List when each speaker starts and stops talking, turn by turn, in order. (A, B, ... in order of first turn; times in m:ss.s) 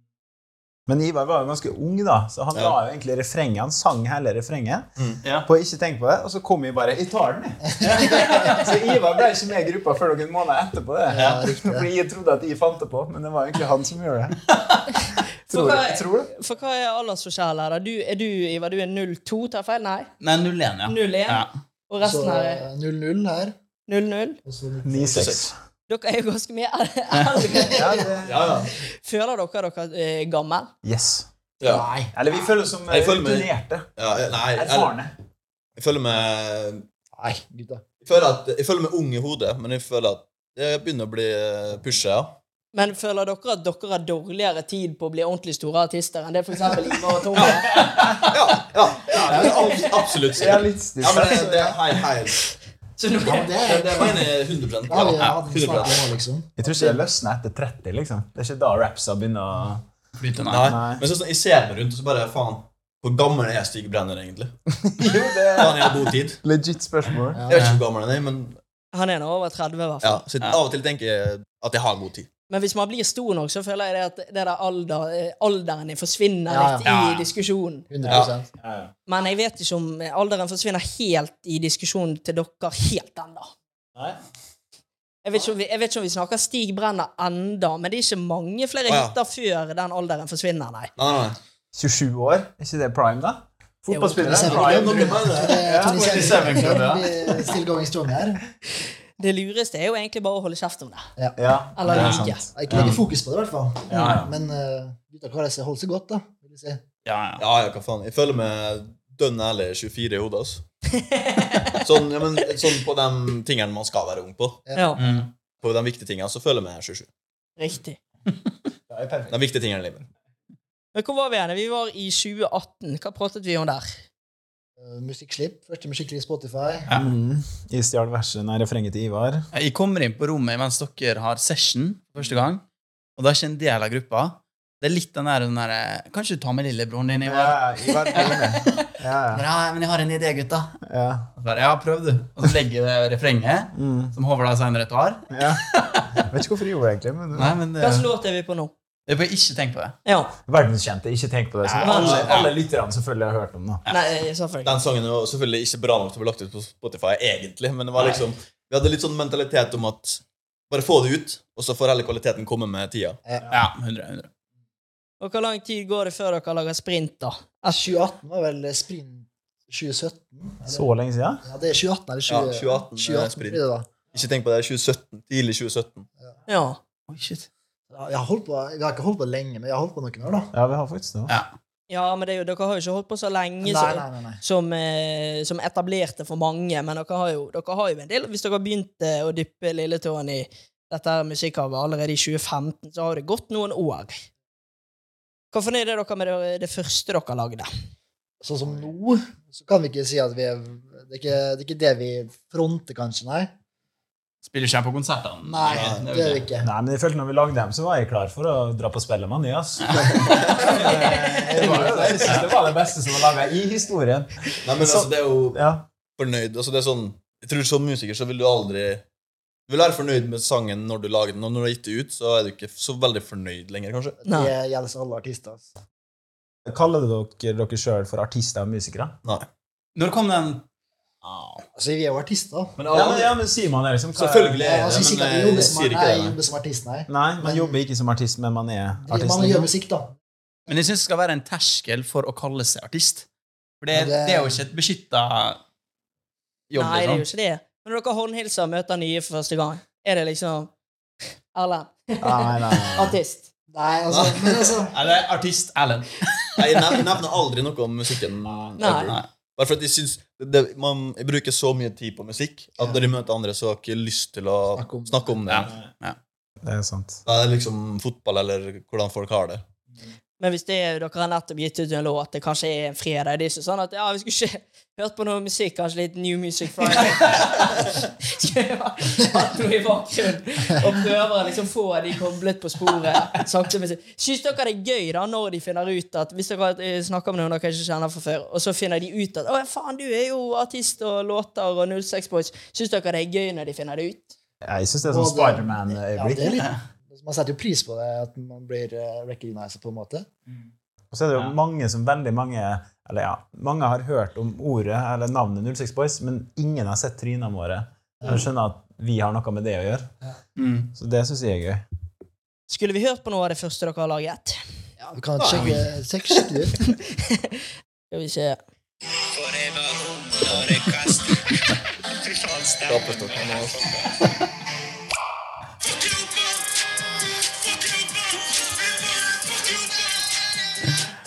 0:00.9-0:04.9 A
0:05.2-0:05.5 B
0:05.4-0:14.4 A
0:07.8-0:08.4 C
0:11.1-0:11.9 C
0:15.5-0:16.3 A
0:15.5-0:20.1 D
0:20.2-0:21.5 B
0:20.9-0:22.6 D
0:22.0-0:23.5 C
0:23.9-0:24.4 D
0:24.4-0:25.3 C
0:24.8-0:25.5 A
0:25.1-0:25.4 E
0:25.9-0:28.1 D
0:27.6-0:28.1 C
0:27.7-0:28.6 A
0:28.2-0:28.7 E
0:28.8-0:30.7 D
0:30.8-0:31.3 A
0:31.6-0:31.9 E
0:31.6-0:32.1 C
0:32.1-0:33.9 A
0:32.9-0:35.0 E
0:34.5-0:35.1 A
0:35.8-0:36.8 E
0:37.2-0:37.8 C
0:38.0-0:42.4 E
0:42.7-0:47.7 D
0:47.4-0:47.7 B
0:47.5-0:52.4 E
0:49.3-0:49.6 A
0:50.3-0:51.8 A
0:53.0-0:54.1 D
0:53.2-0:54.3 C
0:53.6-0:56.1 E
0:54.9-0:57.0 C
0:56.6-0:59.8 A
1:00.2-1:00.7 B
1:00.5-1:04.5 E
1:00.6-1:01.0 A
1:04.8-1:07.4 A
1:05.6-1:06.4 E
1:07.3-1:07.7 C
1:07.5-1:08.6 E
1:07.5-1:07.8 B
1:08.9-1:10.2 D
1:10.0-1:12.3 E
1:12.5-1:17.9 D
1:16.5-1:16.9 C
1:16.8-1:17.3 B
1:17.9-1:18.5 C
1:18.0-1:18.9 A
1:18.1-1:18.3 E
1:19.1-1:23.5 D
1:25.2-1:30.9 D
1:28.9-1:29.2 E
1:31.0-1:31.4 E
1:31.7-1:36.6 A
1:33.9-1:34.4 D
1:34.2-1:38.4 C
1:34.5-1:35.6 E
1:35.9-1:37.1 B
1:39.2-1:41.0 D
1:41.2-1:46.8 C
1:41.4-1:43.0 A
1:41.8-1:42.4 D
1:43.9-1:44.3 A
1:43.9-1:44.2 B
1:47.1-1:47.4 B
1:47.4-1:50.6 E
1:50.9-1:51.8 D
1:51.8-1:54.6 E
1:54.7-1:55.0 C
1:54.8-1:55.0 D
1:55.0-1:55.3 B
1:55.6-1:57.1 E
1:57.6-1:58.0 D
1:58.9-1:59.3 A
1:59.3-2:00.1 E
2:01.0-2:04.0 D
2:04.8-2:06.9 C
2:06.9-2:09.5 A
2:09.5-2:12.6 B
2:13.2-2:18.5 B
2:17.2-2:19.4 A
2:19.4-2:20.7 B
2:20.8-2:21.3 A
2:21.4-2:26.1 B
2:23.7-2:24.2 A
2:25.3-2:27.6 A
2:27.4-2:28.1 B
2:27.8-2:28.7 D
2:29.1-2:30.0 B
2:30.0-2:30.3 D
2:30.5-2:33.8 A
2:31.6-2:32.5 B
2:31.8-2:32.2 D
2:32.0-2:32.4 E
2:33.9-2:34.8 D
2:34.6-2:43.2 E
2:43.5-2:44.3 B
2:45.2-2:47.8 D
2:47.7-2:50.8 C
2:50.7-2:51.4 A
2:51.4-2:53.9 C
2:52.3-2:53.6 E
2:54.1-2:56.1 E
2:56.5-2:56.8 D
2:57.1-2:57.5 B
2:57.9-3:00.5 C
3:00.5-3:01.4 A
3:01.3-3:01.5 B
3:01.9-3:14.2 D
3:03.6-3:04.4 C
3:15.5-3:17.7 D
3:18.4-3:23.5 C
3:24.4-3:26.4 B
3:25.4-3:26.7 C
3:25.7-3:26.0 E
3:26.6-3:35.9 A
3:30.3-3:30.9 E
3:31.6-3:32.5 B
3:31.6-3:32.4 E
3:34.6-3:35.6 E
3:36.2-3:39.0 E
3:39.7-3:44.2 E
3:44.2-3:45.7 C
3:44.2-3:44.5 D
3:46.7-3:49.2 A
3:50.0-3:50.6 B
3:51.2-3:51.6 B
3:51.8-3:52.8 C
3:52.8-3:53.4 E
3:52.9-3:54.7 A
3:54.2-3:56.4 E
3:54.6-3:57.8 C
3:57.1-3:59.7 A
3:59.0-4:00.1 C
4:00.7-4:03.3 B
4:03.8-4:05.6 B
4:03.9-4:04.6 C
4:06.7-4:07.2 B
4:06.8-4:10.7 D
4:11.6-4:13.5 D
4:12.2-4:13.2 A
4:13.7-4:14.9 C
4:14.1-4:14.7 E
4:14.9-4:16.3 B
4:16.6-4:25.7 E
4:18.5-4:18.8 A
4:18.8-4:19.1 D
4:22.8-4:23.1 C
4:24.8-4:25.3 C
4:25.5-4:26.2 B
4:26.6-4:27.2 A
4:27.2-4:29.6 E
4:30.4-4:54.3 D
4:54.6-4:56.6 A
4:55.1-5:00.3 C
5:01.1-5:10.1 A
5:10.6-5:10.9 B
5:10.9-5:11.8 A
5:12.7-5:14.6 D
5:15.1-5:17.0 C
5:15.4-5:15.8 E
5:16.9-5:17.6 D
5:18.1-5:18.6 D
5:22.8-5:24.0 E